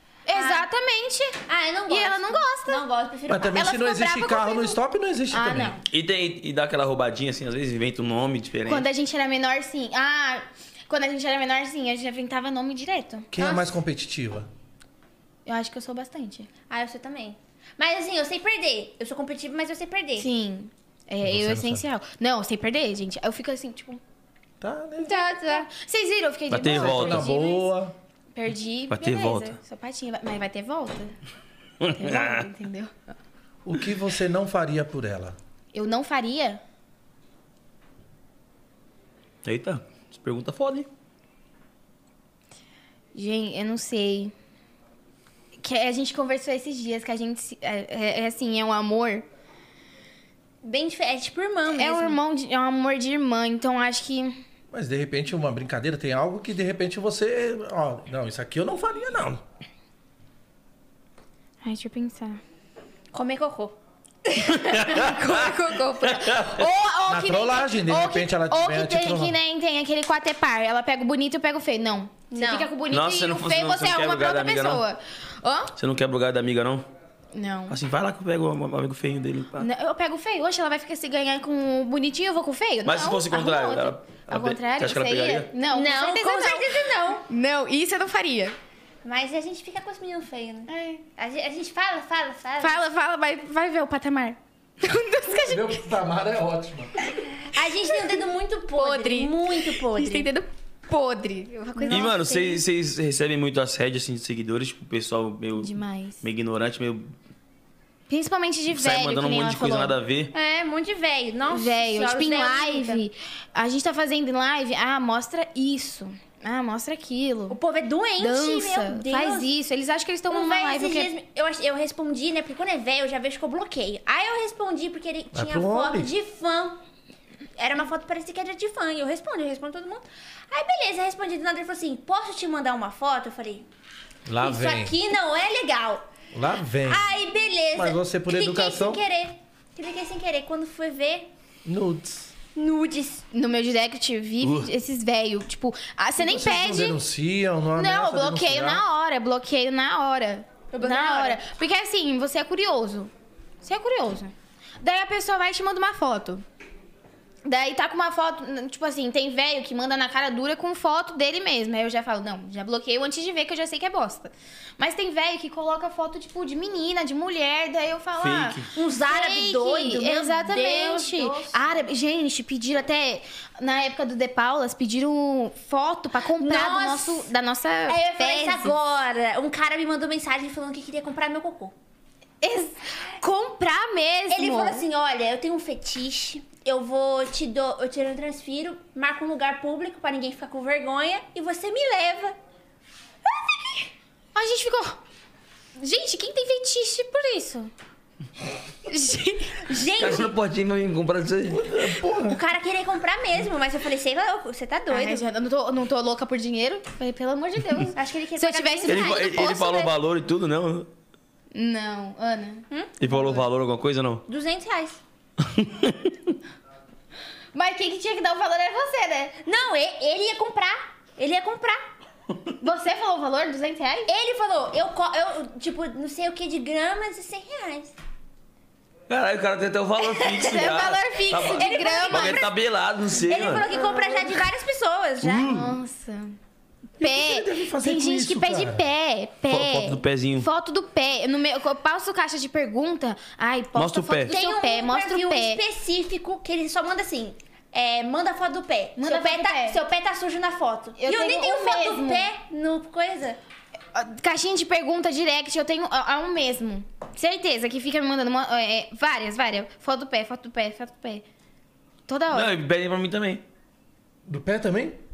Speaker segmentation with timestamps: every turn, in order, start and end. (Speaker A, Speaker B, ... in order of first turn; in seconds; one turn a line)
Speaker A: 0.3-2.8
Speaker B: 0.3-0.7
Speaker B: 1.5-3.7
Speaker C: 3.3-5.8
Speaker A: 3.5-4.8
Speaker A: 5.3-5.8
Speaker D: 5.9-8.9
Speaker A: 8.7-13.3
Speaker C: 13.3-14.5
Speaker B: 13.4-13.8
Speaker A: 15.5-16.5
Speaker B: 16.7-20.3
Speaker A: 20.2-24.0
Speaker C: 21.2-21.9
Speaker C: 24.6-25.1
Speaker A: 25.0-27.7
Speaker B: 25.3-25.7
Speaker D: 26.5-27.3
Speaker C: 26.7-27.9
Speaker A: 28.4-31.2
Speaker D: 28.9-29.6
Speaker D: 31.8-32.5
Speaker A: 31.9-33.1
Speaker C: 33.6-35.4
Speaker A: 35.7-36.6
Speaker D: 39.4-40.9
Speaker A: 43.1-44.3
Speaker A: 45.6-49.3
Speaker B: 50.6-52.2
Speaker A: 51.7-54.4
Speaker C: 54.7-59.4
Speaker A: 61.6-62.4
Speaker B: 63.1-63.8
Speaker D: 64.4-66.7
Speaker B: 64.7-65.1
Speaker A: 64.9-75.7
Speaker C: 67.1-69.4
Speaker B: 72.3-72.7
Speaker D: 72.9-74.8
Speaker D: 75.8-76.9
Speaker A: 77.3-77.8
Speaker D: 77.7-79.7
Speaker A: 79.6-88.5
Speaker D: 82.8-85.5
Speaker B: 85.7-87.3
Speaker B: 89.0-92.9
Speaker A: 90.7-91.0
Speaker A: 92.6-95.8
Speaker C: 95.5-96.9
Speaker B: 97.5-100.3
Speaker A: 98.7-102.2
Speaker B: 101.8-102.6
Speaker D: 101.9-107.1
Speaker A: 105.6-106.2
Speaker A: 108.1-110.0
Speaker D: 108.7-110.3
Speaker B: 110.3-113.0
Speaker A: 111.5-117.6
Speaker B: 117.5-119.5
Speaker A: 118.2-121.1
Speaker B: 120.3-126.8
Speaker C: 125.3-126.1
Speaker B: 127.6-133.7
Speaker C: 134.3-135.0
Speaker B: 134.4-136.1
Speaker C: 136.3-137.2
Speaker B: 136.9-141.3
Speaker C: 137.7-139.0
Speaker C: 141.7-142.3
Speaker B: 142.6-143.2
Speaker A: 143.3-147.0
Speaker C: 146.2-148.8
Speaker A: 147.8-156.4
Speaker B: 150.7-151.4
Speaker A: 157.4-178.7
Speaker D: 168.2-168.7
Speaker B: 168.8-171.9
Speaker B: 176.4-177.3
Speaker B: 177.9-181.7
Speaker A: 182.4-184.8
Speaker B: 184.3-192.4
Speaker A: 194.3-195.0
Speaker A: 195.8-197.7
Speaker A: 198.9-199.9
Speaker B: 199.7-200.3
Speaker D: 200.0-202.0
Speaker C: 201.5-202.4
Speaker B: 202.2-205.2
Speaker A: 204.9-209.4
Speaker B: 207.9-209.9
Speaker D: 208.9-210.9
Speaker A: 211.5-213.4
Speaker D: 213.0-214.2
Speaker B: 214.3-215.0
Speaker D: 215.4-216.3
Speaker A: 217.5-219.4
Speaker B: 219.4-221.8
Speaker A: 222.6-224.1
Speaker B: 224.1-227.9
Speaker D: 229.1-233.7
Speaker A: 230.4-232.5
Speaker B: 231.4-232.5
Speaker B: 233.2-235.6
Speaker D: 235.2-235.7
Speaker A: 235.4-236.3
Speaker C: 237.0-238.8
Speaker A: 237.0-245.6
Speaker D: 239.5-240.5
Speaker D: 243.8-244.3
Speaker B: 244.3-253.4
Speaker A: 249.0-249.8
Speaker A: 251.0-252.3
Speaker A: 253.9-261.2
Speaker A: 262.1-262.5
Speaker D: 262.3-263.4
Speaker C: 264.3-265.0